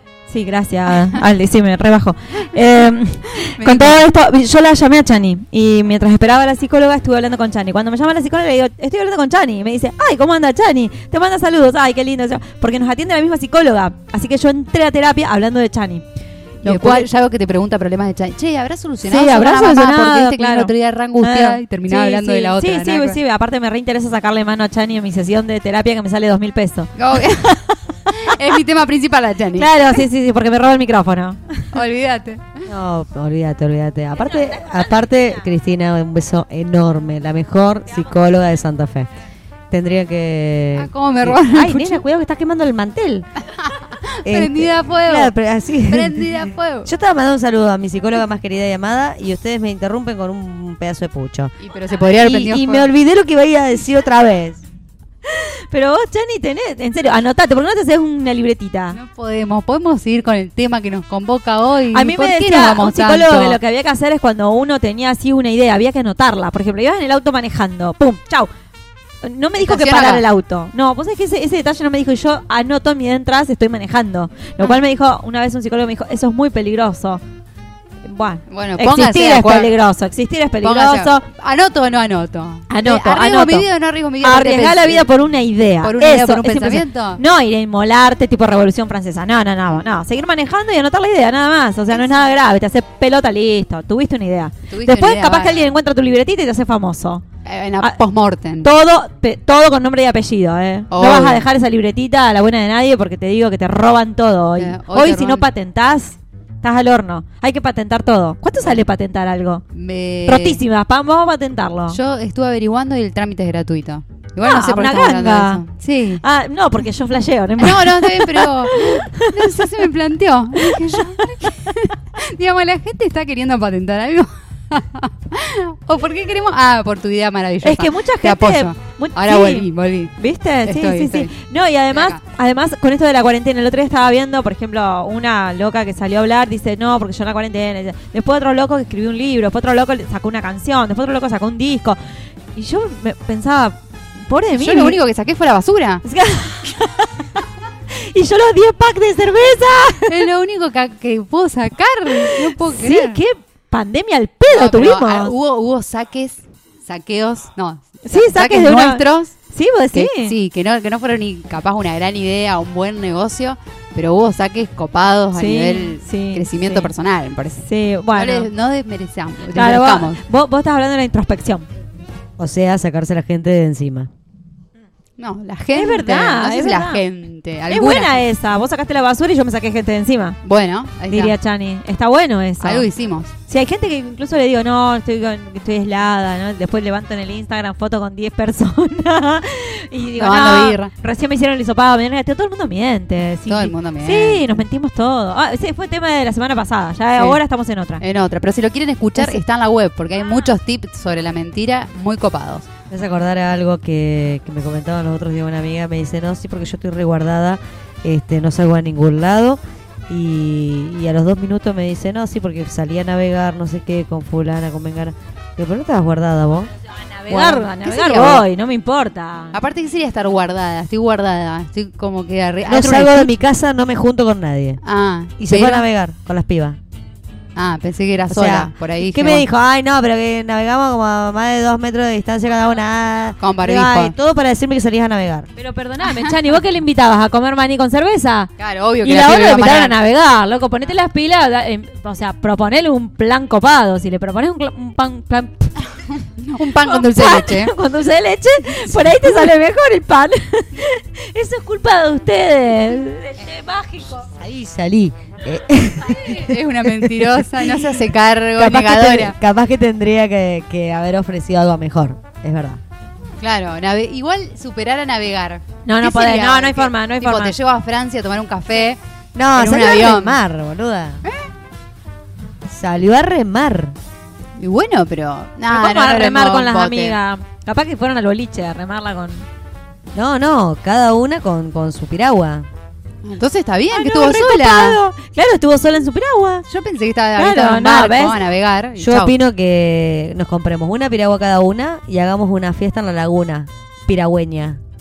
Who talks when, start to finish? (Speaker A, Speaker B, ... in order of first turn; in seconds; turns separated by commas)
Speaker A: 0.3-16.0, Speaker B: 3.6-4.0, Speaker A: 16.6-17.1, Speaker B: 16.6-23.2, Speaker A: 19.0-27.7, Speaker B: 27.0-27.6, Speaker B: 28.1-29.7, Speaker A: 29.6-31.6, Speaker B: 31.7-32.5, Speaker C: 32.6-39.1, Speaker A: 34.2-35.4, Speaker C: 39.7-43.3, Speaker B: 40.7-42.0, Speaker B: 43.7-45.3, Speaker C: 44.2-54.6, Speaker B: 45.9-46.9, Speaker B: 51.6-52.9, Speaker A: 55.3-59.0, Speaker B: 58.9-63.6, Speaker A: 61.9-68.5, Speaker A: 69.2-77.2, Speaker B: 69.6-70.2, Speaker A: 78.0-81.2, Speaker B: 78.5-79.7, Speaker B: 80.6-85.1, Speaker A: 82.7-83.7, Speaker A: 84.2-97.2, Speaker B: 85.8-87.2, Speaker B: 94.7-95.7, Speaker B: 97.4-98.7, Speaker A: 98.6-109.6, Speaker B: 100.9-101.4, Speaker B: 104.6-105.5, Speaker B: 109.7-110.6, Speaker A: 110.2-112.0, Speaker B: 111.9-116.2, Speaker A: 114.4-115.6, Speaker A: 116.2-119.7, Speaker B: 117.6-130.1, Speaker A: 120.6-121.2, Speaker A: 127.6-142.0, Speaker B: 130.6-131.3, Speaker B: 131.9-132.2, Speaker A: 142.5-145.0, Speaker B: 144.6-146.0, Speaker A: 146.0-150.2, Speaker B: 150.1-153.2, Speaker A: 152.7-155.3, Speaker B: 154.5-159.3, Speaker A: 158.1-160.3, Speaker B: 159.9-170.2, Speaker A: 165.3-166.9, Speaker A: 167.6-168.5, Speaker A: 169.5-171.7, Speaker C: 172.4-174.1, Speaker B: 175.2-178.2, Speaker A: 175.7-177.0, Speaker A: 177.7-180.4, Speaker B: 180.4-181.3, Speaker A: 181.1-182.9, Speaker B: 182.6-183.3, Speaker A: 183.5-198.0, Speaker B: 190.2-190.9, Speaker B: 193.5-194.4, Speaker B: 198.0-202.7, Speaker A: 199.2-199.4, Speaker C: 202.9-216.7, Speaker A: 216.9-219.6, Speaker C: 217.3-217.6, Speaker B: 217.3-218.4, Speaker B: 219.5-223.3, Speaker C: 222.7-224.8, Speaker B: 224.8-225.8, Speaker C: 225.4-226.8, Speaker B: 227.6-229.4, Speaker C: 228.3-235.5, Speaker B: 233.4-234.1, Speaker A: 235.6-238.5, Speaker B: 236.1-236.4, Speaker B: 238.6-239.9, Speaker A: 239.0-245.8, Speaker B: 246.4-247.7, Speaker A: 246.8-254.2, Speaker B: 248.8-249.5, Speaker C: 254.4-257.7, Speaker B: 256.2-259.4, Speaker C: 258.6-262.8, Speaker B: 263.4-269.0, Speaker A: 265.9-267.6, Speaker C: 269.3-271.2, Speaker B: 269.5-270.4, Speaker C: 272.7-273.9, Speaker B: 274.6-277.1, Speaker A: 275.7-279.4, Speaker C: 280.1-282.7, Speaker B: 283.2-285.0, Speaker A: 283.9-286.6, Speaker B: 286.7-289.3, Speaker A: 287.4-288.4, Speaker C: 289.0-294.8